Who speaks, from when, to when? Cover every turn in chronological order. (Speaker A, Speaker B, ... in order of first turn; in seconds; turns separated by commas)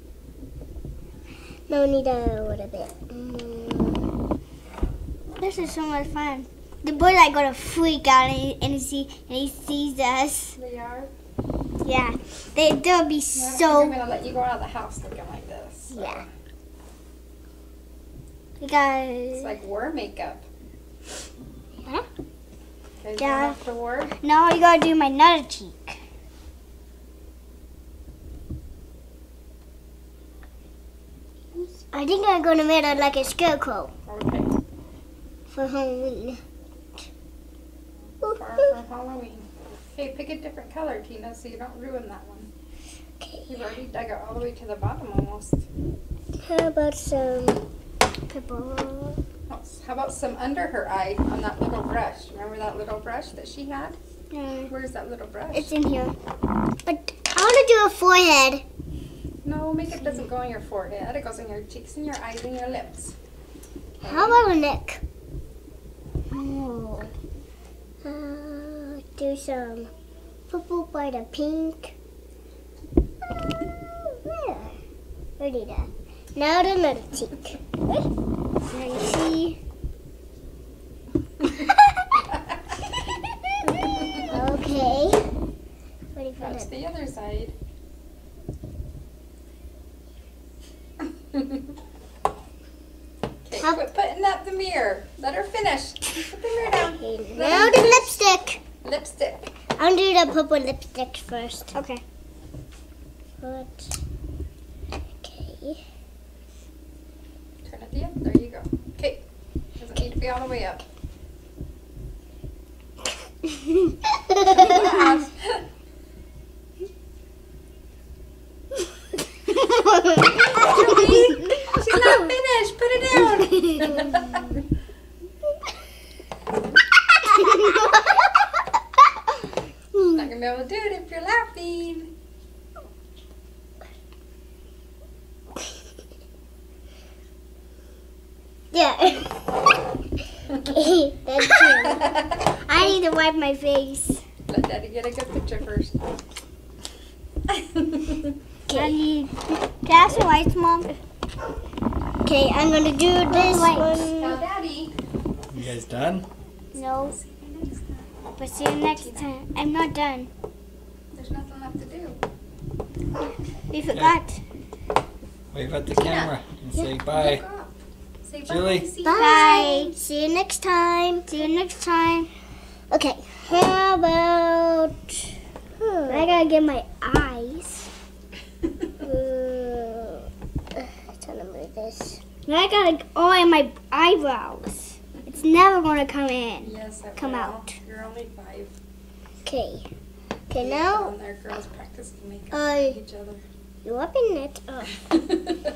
Speaker A: 1.7-4.1, Speaker B: 5.4-10.6, Speaker C: 10.6-11.1, Speaker B: 11.8-14.0, Speaker C: 13.3-16.3, Speaker B: 15.9-16.2, Speaker B: 18.6-19.5, Speaker C: 19.3-20.4, Speaker C: 23.0-24.1, Speaker B: 23.2-23.6, Speaker B: 24.2-26.0, Speaker A: 31.9-33.9, Speaker C: 34.1-34.5, Speaker A: 35.5-36.4, Speaker C: 38.2-42.5, Speaker A: 43.2-43.6, Speaker C: 43.5-45.6, Speaker A: 46.4-47.7, Speaker B: 48.3-49.2, Speaker C: 49.5-54.0, Speaker B: 54.3-54.7, Speaker C: 54.7-55.7, Speaker B: 55.5-56.1, Speaker A: 56.9-58.6, Speaker C: 59.4-63.1, Speaker B: 60.0-60.3, Speaker C: 64.0-64.4, Speaker A: 64.0-65.0, Speaker B: 66.3-67.1, Speaker A: 68.0-69.9, Speaker A: 70.5-72.0, Speaker A: 74.1-74.7, Speaker A: 75.4-77.6, Speaker B: 78.7-79.6, Speaker A: 84.3-85.2, Speaker A: 86.1-86.7, Speaker C: 86.4-87.5, Speaker C: 93.5-98.2, Speaker A: 97.0-98.6, Speaker C: 98.8-99.5, Speaker A: 99.8-101.7, Speaker B: 101.7-102.0, Speaker A: 103.4-103.9, Speaker A: 105.2-105.8, Speaker C: 107.7-109.2, Speaker C: 109.8-110.8, Speaker C: 114.4-115.6, Speaker C: 120.5-124.5, Speaker A: 129.9-130.3, Speaker C: 130.1-132.1, Speaker B: 138.7-139.2, Speaker A: 138.9-139.3, Speaker A: 140.6-142.2, Speaker B: 142.3-144.2, Speaker C: 144.5-145.9, Speaker C: 147.8-148.1, Speaker A: 148.7-149.0, Speaker B: 148.7-150.9, Speaker A: 152.2-154.4, Speaker B: 153.2-154.1, Speaker C: 154.2-154.9, Speaker D: 155.5-156.3, Speaker B: 156.7-157.2, Speaker C: 157.0-158.1, Speaker B: 158.4-160.3, Speaker C: 159.0-159.3, Speaker C: 161.2-162.2, Speaker B: 163.7-164.4, Speaker D: 163.9-164.2, Speaker D: 165.5-167.4, Speaker C: 165.9-166.4, Speaker C: 167.0-169.8, Speaker D: 168.4-168.9, Speaker A: 169.0-171.3, Speaker B: 169.1-169.9, Speaker B: 171.3-172.3, Speaker A: 172.9-175.2, Speaker A: 175.8-176.3, Speaker B: 176.1-177.9, Speaker A: 179.0-182.2, Speaker B: 182.4-187.8, Speaker C: 186.6-188.7, Speaker A: 189.4-189.9, Speaker A: 190.5-191.1, Speaker C: 190.6-193.4, Speaker A: 192.5-193.0, Speaker A: 193.8-195.1